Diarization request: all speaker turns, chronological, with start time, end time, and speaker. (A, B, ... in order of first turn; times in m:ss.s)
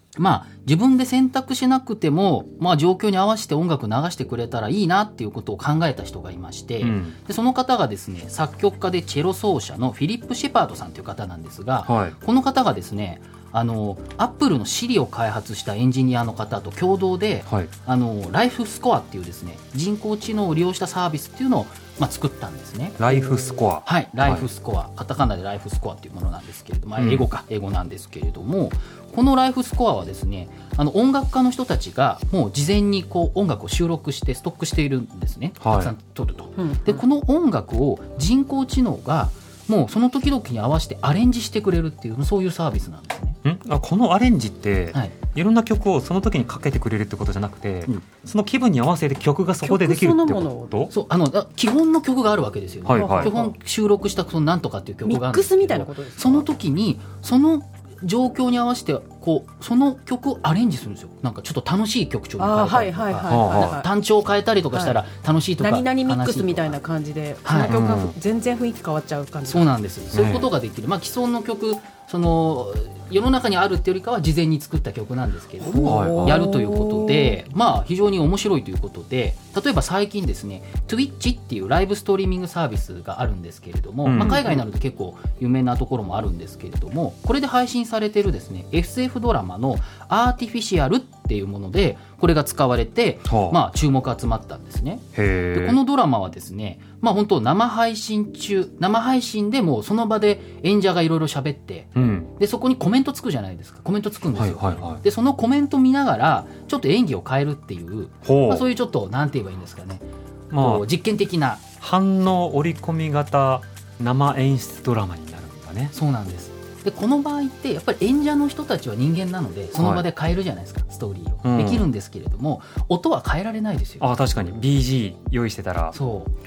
0:00.2-0:43.4 A
0:06.8-0:07.2 B
0:11.8-0:12.2 B
0:17.4-0:17.7 B
0:23.0-0:24.4 B
0:27.0-0:27.3 B
0:35.6-0:35.9 B
0:36.6-0:37.0 C
0:43.4-0:50.9 B
0:49.6-0:50.9 C
0:50.9-1:06.8 A
0:52.8-0:53.3 B
0:52.9-0:53.6 C
0:55.0-0:56.5 C
1:02.4-1:03.9 C
1:03.3-1:03.8 B
1:04.7-1:05.0 C
1:05.6-1:09.7 C
1:07.4-1:07.8 A
1:07.5-1:08.1 B
1:09.4-1:51.6 A
1:10.1-1:10.5 B
1:15.6-1:17.4 C
1:15.8-1:16.4 B
1:24.0-1:24.6 B
1:24.2-1:24.5 C
1:33.2-1:33.6 B
1:35.1-1:35.8 B
1:41.9-1:42.3 B
1:44.3-1:45.0 B
1:48.2-1:48.6 B
1:50.5-1:50.8 B
1:51.8-1:55.9 B
1:55.9-2:04.4 A
1:59.7-2:00.0 B
2:01.4-2:01.9 B
2:04.0-2:06.0 B
2:05.9-2:06.3 A